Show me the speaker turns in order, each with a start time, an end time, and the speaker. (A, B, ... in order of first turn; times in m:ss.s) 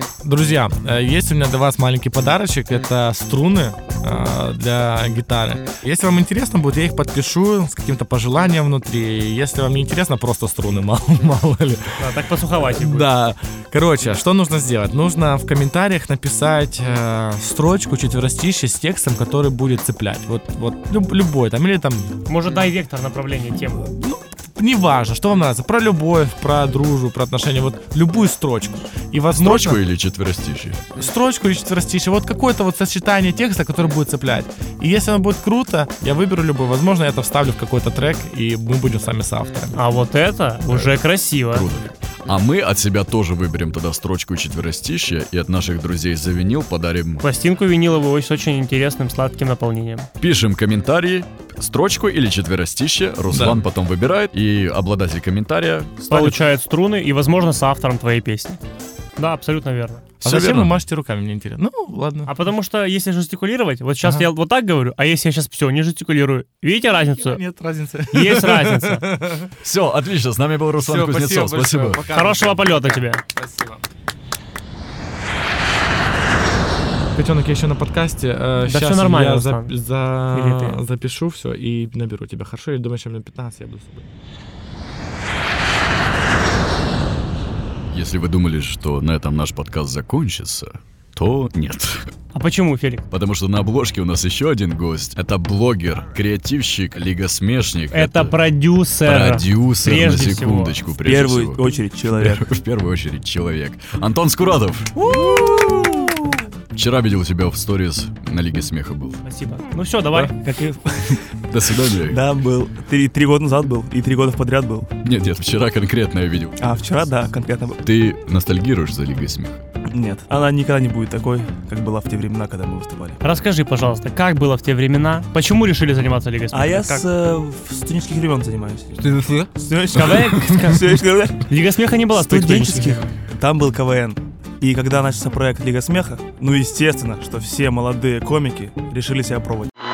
0:00.2-0:12.0 A
0:12.0-0:13.1 B
0:12.6-0:22.2 A
0:22.3-0:23.9 B
0:23.9-0:29.8 A
0:29.4-0:30.8 C
0:31.0-0:39.8 A
0:39.7-0:41.7 B
0:40.7-0:47.2 C
0:47.2-0:50.1 B
0:50.2-0:56.4 C
0:53.3-0:53.6 A
0:56.1-0:58.6 B
0:59.2-1:00.0 B
1:00.2-1:02.3 A
1:00.2-1:00.7 C
1:02.3-1:07.4 B
1:07.1-1:09.5 A
1:08.1-1:09.1 B
1:09.6-1:12.1 C
1:10.8-1:13.8 A
1:12.1-1:13.2 B
1:17.1-1:24.0 A
1:18.6-1:19.7 B
1:20.3-1:20.8 B
1:27.9-1:32.1 C
1:32.3-1:33.0 B
1:33.1-1:38.4 C
1:37.9-1:40.8 B
1:39.0-1:45.1 C
1:41.0-1:42.4 D
1:45.0-1:46.4 D
1:46.7-1:49.2 C
1:49.2-1:50.4 B
1:50.1-1:51.2 D
1:51.5-1:52.2 C
1:52.0-1:54.9 D
1:55.0-1:56.8 C
1:56.6-1:57.8 D
1:57.8-1:59.6 C
1:59.9-2:03.2 D
2:03.2-2:07.0 B
2:06.5-2:11.5 D
2:09.1-2:09.5 A
2:09.9-2:13.1 B
2:12.1-2:19.7 D